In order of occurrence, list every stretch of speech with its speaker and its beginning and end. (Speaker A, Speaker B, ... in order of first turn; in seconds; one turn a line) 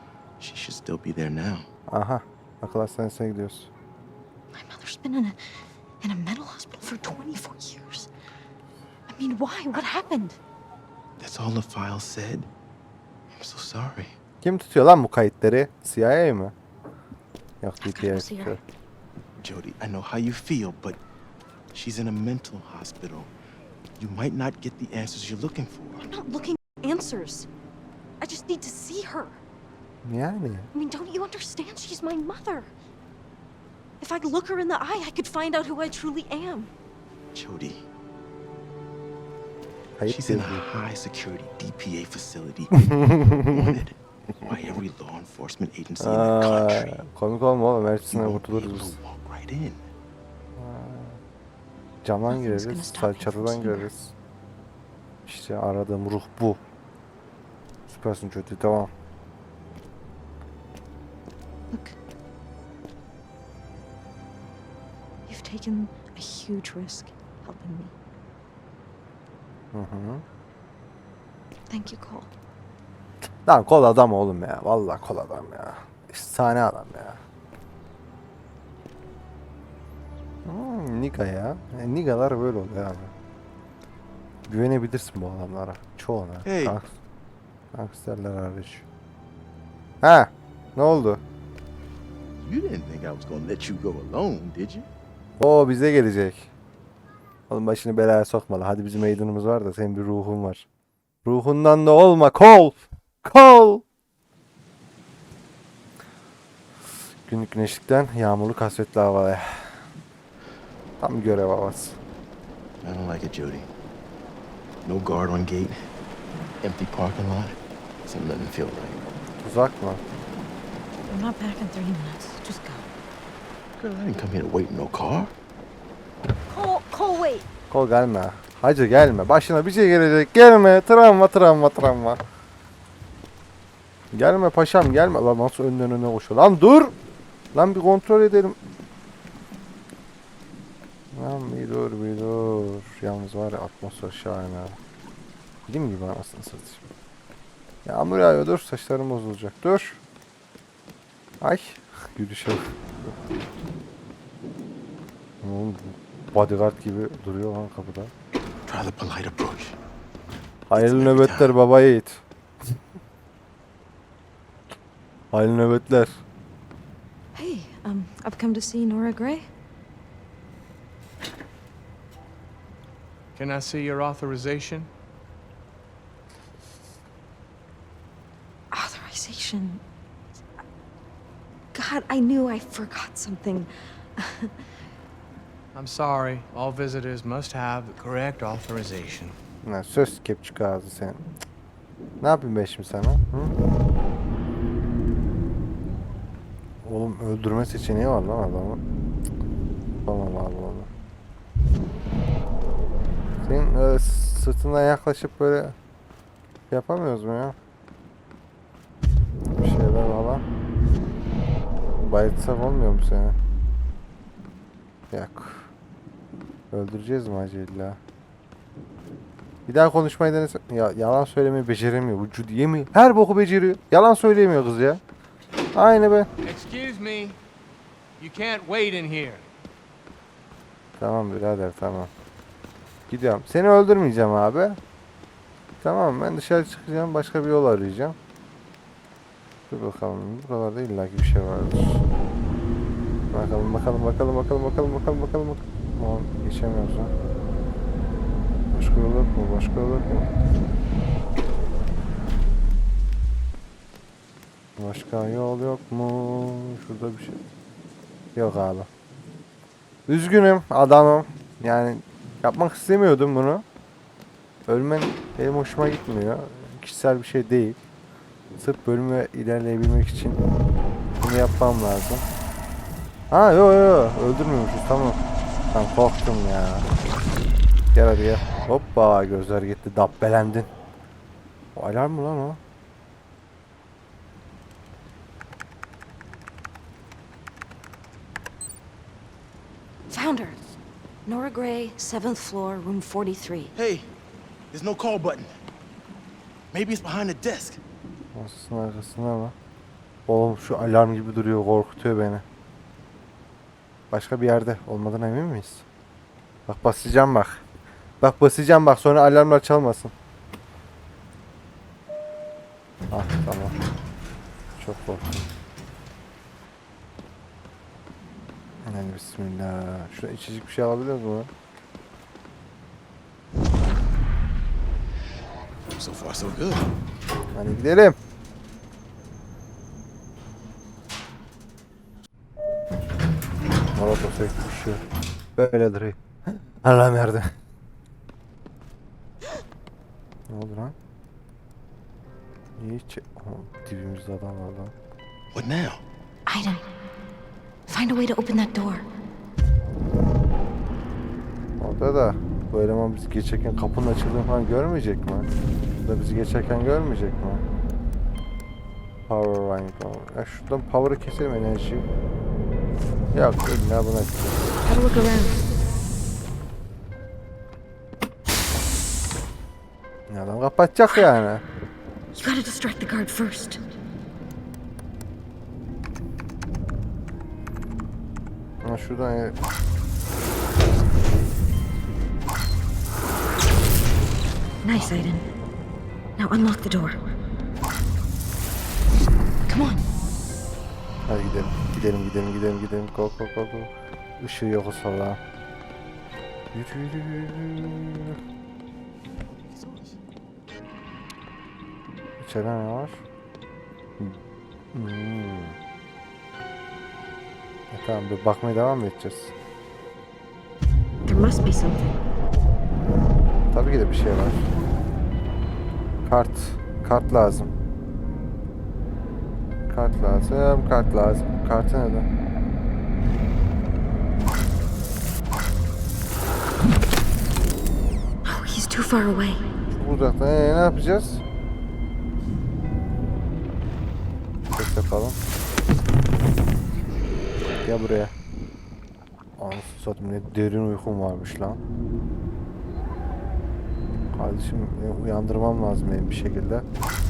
Speaker A: 0.4-1.7
Speaker B: 1.9-3.7
Speaker C: 4.5-5.4
Speaker C: 6.0-8.1
Speaker C: 9.1-10.4
Speaker A: 11.2-12.5
Speaker A: 13.3-14.2
Speaker B: 14.4-16.5
Speaker B: 17.6-18.6
Speaker C: 17.8-18.6
Speaker A: 19.4-21.0
Speaker A: 21.7-23.3
Speaker A: 24.0-26.1
Speaker C: 26.0-27.5
Speaker C: 28.2-29.4
Speaker B: 30.0-30.7
Speaker C: 30.7-32.7
Speaker C: 34.0-36.7
Speaker A: 37.3-37.9
Speaker B: 40.0-40.6
Speaker A: 40.1-47.0
Speaker B: 43.0-43.7
Speaker B: 46.0-49.0
Speaker A: 48.1-49.8
Speaker B: 50.6-51.2
Speaker B: 52.0-54.1
Speaker C: 52.3-53.9
Speaker B: 55.3-56.6
Speaker B: 57.9-58.9
Speaker C: 61.7-62.0
Speaker C: 65.3-67.9
Speaker B: 69.7-70.2
Speaker C: 71.7-72.3
Speaker B: 73.5-77.2
Speaker B: 80.5-83.1
Speaker B: 84.5-86.9
Speaker A: 86.5-86.8
Speaker B: 87.7-88.8
Speaker B: 90.0-91.2
Speaker A: 92.4-94.9
Speaker B: 95.4-96.5
Speaker B: 97.5-100.7
Speaker B: 101.2-103.8
Speaker B: 107.3-109.8
Speaker B: 111.0-112.0
Speaker A: 112.8-113.7
Speaker A: 114.8-115.9
Speaker A: 116.6-119.0
Speaker B: 119.4-120.0
Speaker C: 121.1-122.9
Speaker A: 123.8-125.3
Speaker C: 126.5-127.5
Speaker B: 127.7-132.2
Speaker B: 134.1-136.9
Speaker B: 137.5-138.6
Speaker B: 141.1-144.8
Speaker B: 145.7-146.8
Speaker B: 147.8-150.0
Speaker B: 151.4-153.1
Speaker B: 155.4-158.1
Speaker A: 158.7-159.8
Speaker B: 160.7-162.2
Speaker A: 160.7-161.5
Speaker B: 165.3-166.2
Speaker C: 167.3-169.5
Speaker D: 173.4-174.9
Speaker C: 178.7-179.8
Speaker C: 181.7-184.6
Speaker D: 185.7-189.4
Speaker B: 189.6-191.3
Speaker B: 192.2-193.5
Speaker B: 196.8-198.8
Speaker B: 200.1-200.9
Speaker B: 203.4-205.8
Speaker B: 206.7-207.6
Speaker B: 209.6-210.4
Speaker B: 212.0-213.4
Speaker B: 215.1-215.7
Speaker B: 216.7-218.0
Speaker B: 219.7-225.0
Speaker B: 225.7-226.3
Speaker D: 226.4-227.4
Speaker D: 228.2-229.5
Speaker B: 231.0-232.1
Speaker B: 233.1-234.8
Speaker B: 235.8-238.2
Speaker B: 239.7-242.0
Speaker B: 243.3-247.1
Speaker B: 248.7-250.3
Speaker B: 254.8-257.4
Speaker B: 258.4-258.9
Speaker B: 260.1-263.6
Speaker B: 264.7-267.8
Speaker B: 268.6-270.4
Speaker B: 271.2-272.2
Speaker B: 273.3-275.2
Speaker B: 275.7-276.9
Speaker B: 277.9-280.7
Speaker B: 281.8-282.6
Speaker C: 290.1-290.8
Speaker C: 291.3-293.7
Speaker A: 293.8-294.1
Speaker A: 294.7-295.6
Speaker A: 296.7-297.8
Speaker B: 298.3-299.6
Speaker B: 300.3-302.4
Speaker B: 304.1-305.9
Speaker B: 306.7-307.6
Speaker B: 308.2-310.1
Speaker B: 313.1-313.8
Speaker B: 314.8-315.4
Speaker B: 318.9-321.5
Speaker A: 325.9-326.9
Speaker B: 327.5-328.2
Speaker B: 334.0-335.0
Speaker B: 335.6-337.6
Speaker B: 340.5-341.0
Speaker B: 342.8-344.9
Speaker A: 345.5-346.0
Speaker C: 346.5-346.9
Speaker C: 347.9-349.1
Speaker B: 351.8-355.5
Speaker B: 356.1-357.6
Speaker B: 359.3-362.1
Speaker B: 363.3-364.7
Speaker C: 364.9-365.6
Speaker B: 370.3-371.6
Speaker C: 372.4-373.8
Speaker B: 378.8-379.6
Speaker C: 384.8-385.5
Speaker C: 386.4-387.2
Speaker C: 389.7-390.0
Speaker B: 391.3-395.4
Speaker B: 396.7-398.4
Speaker A: 399.7-400.2
Speaker B: 402.4-403.2
Speaker B: 404.9-405.8
Speaker B: 407.9-409.5
Speaker C: 411.3-412.2
Speaker B: 413.7-414.7
Speaker B: 416.3-417.7
Speaker B: 419.9-422.3
Speaker C: 428.4-429.7
Speaker B: 430.0-431.4
Speaker B: 434.7-435.4
Speaker B: 437.7-438.3
Speaker B: 439.6-441.8
Speaker B: 444.3-446.9